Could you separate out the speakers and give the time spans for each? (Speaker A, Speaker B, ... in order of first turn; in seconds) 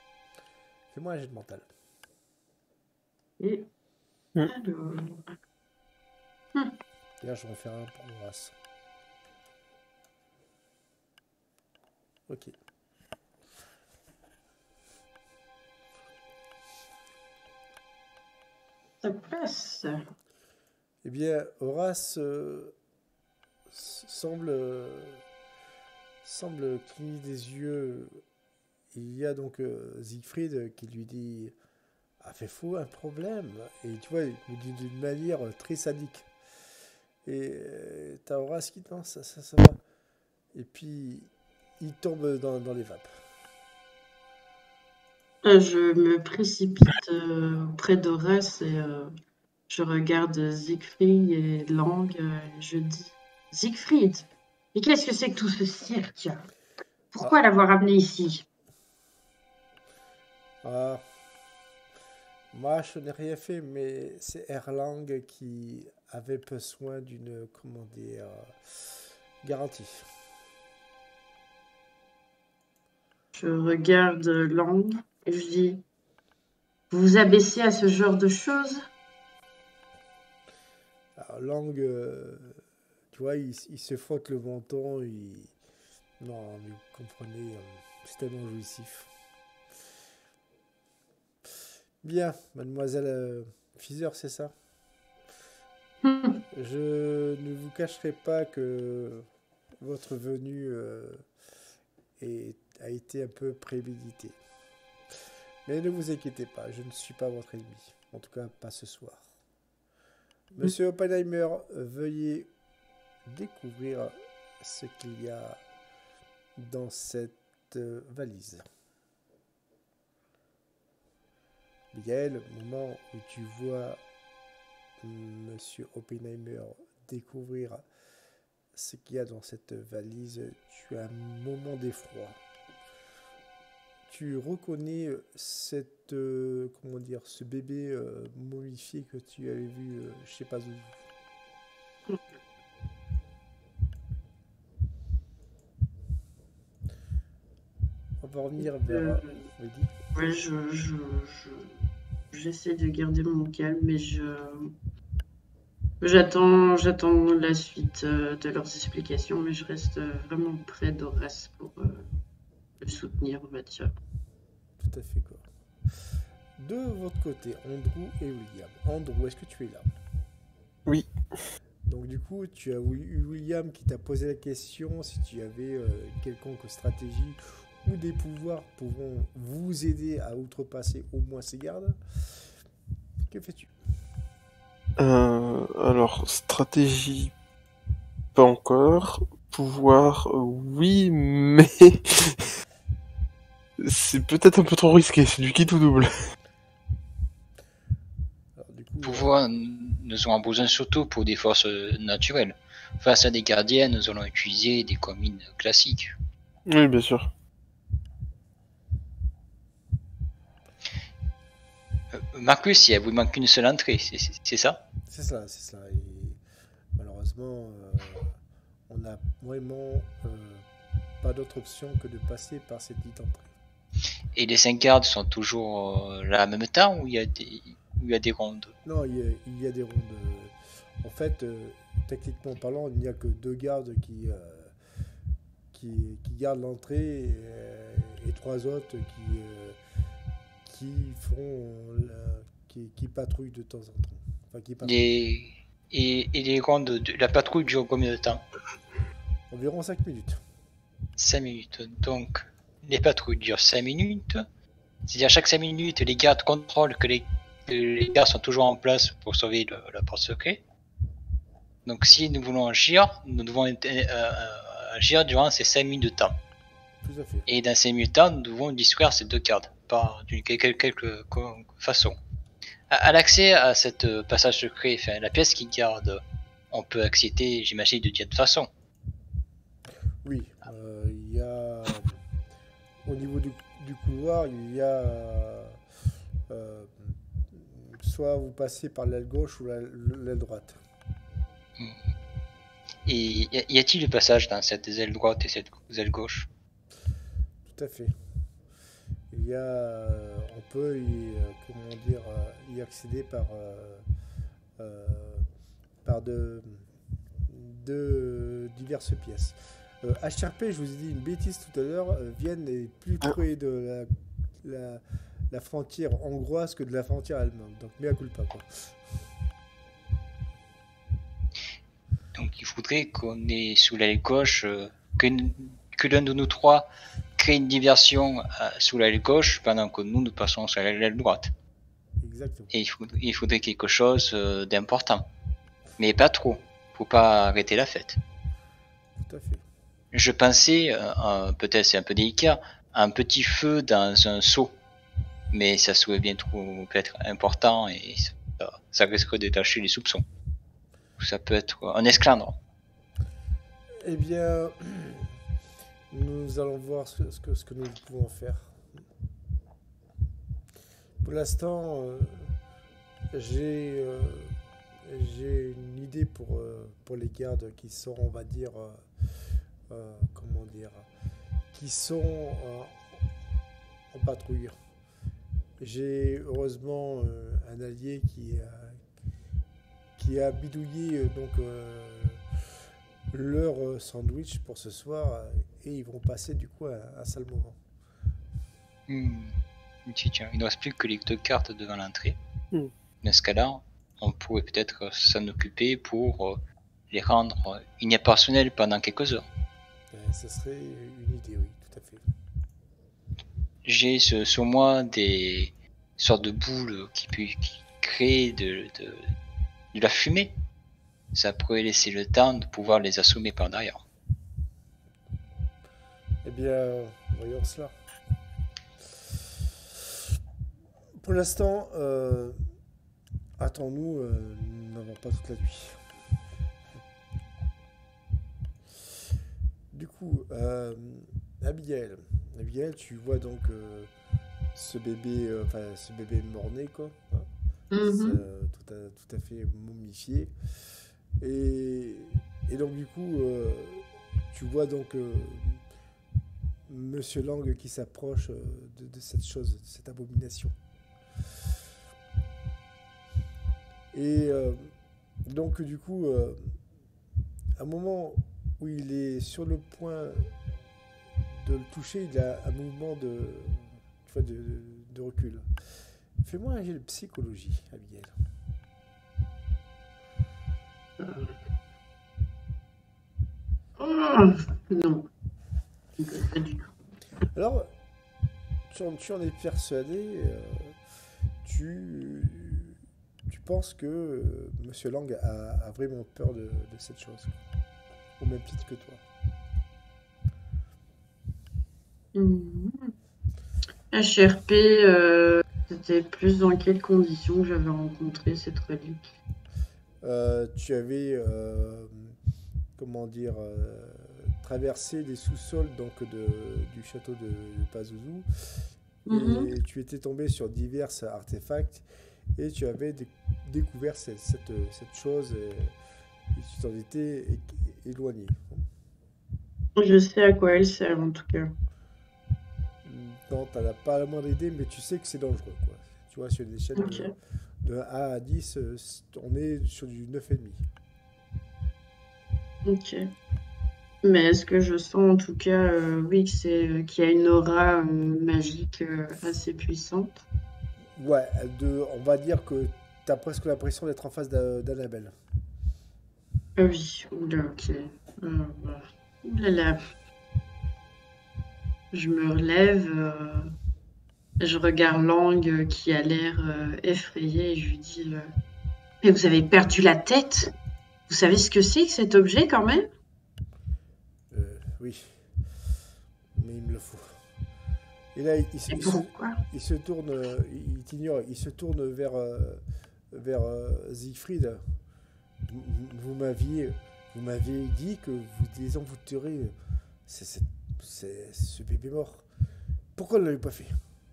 Speaker A: 0.9-1.7, 7.2-8.5, 12.3-12.5, 21.0-22.7, 23.7-25.2, 26.2-28.2, 28.9-31.5, 32.2-36.3, 37.2-39.8, 40.5-43.1, 60.6-61.0, 62.5-70.0, 81.2-82.6, 83.1-85.5, 86.2-89.1, 92.0-94.5, 96.5-99.3, 99.8-101.2, 102.2-104.4, 105.7-109.3, 110.5-112.5, 113.2-115.6, 116.5-118.7, 121.9-124.0, 125.0-127.8, 128.7-132.4, 134.1-141.0, 148.2-149.9, 164.8-165.4, 166.6-169.8, 171.8-182.0, 183.3-183.7, 198.6-199.3, 215.1-216.4, 216.9-218.2, 218.9-220.6, 221.2-223.5, 228.8-234.7, 235.7-239.8, 240.6-245.0, 249.5-250.4, 267.0-267.5, 280.2-282.2, 283.1-285.8, 286.5-290.8, 297.6-298.1, 299.3-304.0, 304.8-305.4, 306.0-306.9, 307.5-314.1, 314.6-318.9, 332.2-332.7, 339.2-339.6, 354.0-355.3, 356.1-358.8, 361.2-362.5, 363.3-369.1, 369.9-371.1, 371.7-373.1, 374.1-374.8, 375.8-379.0, 380.2-382.4, 383.3-387.8, 400.1-402.2, 416.4-417.9, 421.2-422.6, 423.6-426.0, 429.9-434.1, 434.7-437.5, 438.0-440.5, 441.4-445.8, 446.9-450.7, 454.1-454.9, 455.4-456.8, 457.8-460.5, 461.5-465.6, 466.4-468.3, 477.5-477.9, 478.9-481.0, 481.6-487.6, 488.4-489.2, 500.2-502.4, 503.0-512.0, 512.5-515.9, 516.5-518.9, 523.0-527.3, 527.8-530.8, 541.1-545.3, 564.5-565.4, 566.5-567.4, 568.3-574.8, 575.6-579.7, 580.3-582.5, 583.1-584.0
Speaker B: 3.4-3.7, 4.5-5.3, 19.0-20.0, 45.4-49.1, 49.7-56.5, 57.1-58.4, 73.3-75.8, 76.9-78.8, 96.0-96.4, 148.6-149.4, 150.1-151.8, 152.3-154.7, 156.0-162.1, 162.8-163.9, 437.9-438.4, 471.2-471.5, 474.0-475.3, 476.2-476.9, 492.3-493.1, 494.1-499.2, 509.3-509.7, 520.0-521.7, 527.0-527.3, 532.8-533.3, 534.2-540.4, 546.8-550.0, 552.1-553.7, 554.6-558.5, 559.2-560.7, 561.3-563.1, 568.9-569.6
Speaker C: 185.0-187.3, 188.3-192.4, 193.8-196.1, 206.7-207.3
Speaker D: 199.0-206.1, 212.1-214.8, 224.3-228.7, 244.8-248.4, 251.2-254.4, 255.1-260.6, 261.9-266.4, 267.5-272.2, 272.9-278.7, 293.0-296.5, 322.3-331.5, 332.7-335.2, 336.0-338.2, 340.1-344.8, 345.5-350.2, 351.2-352.6, 389.1-392.4, 393.2-399.5, 403.8-409.3, 409.9-410.6, 411.3-414.0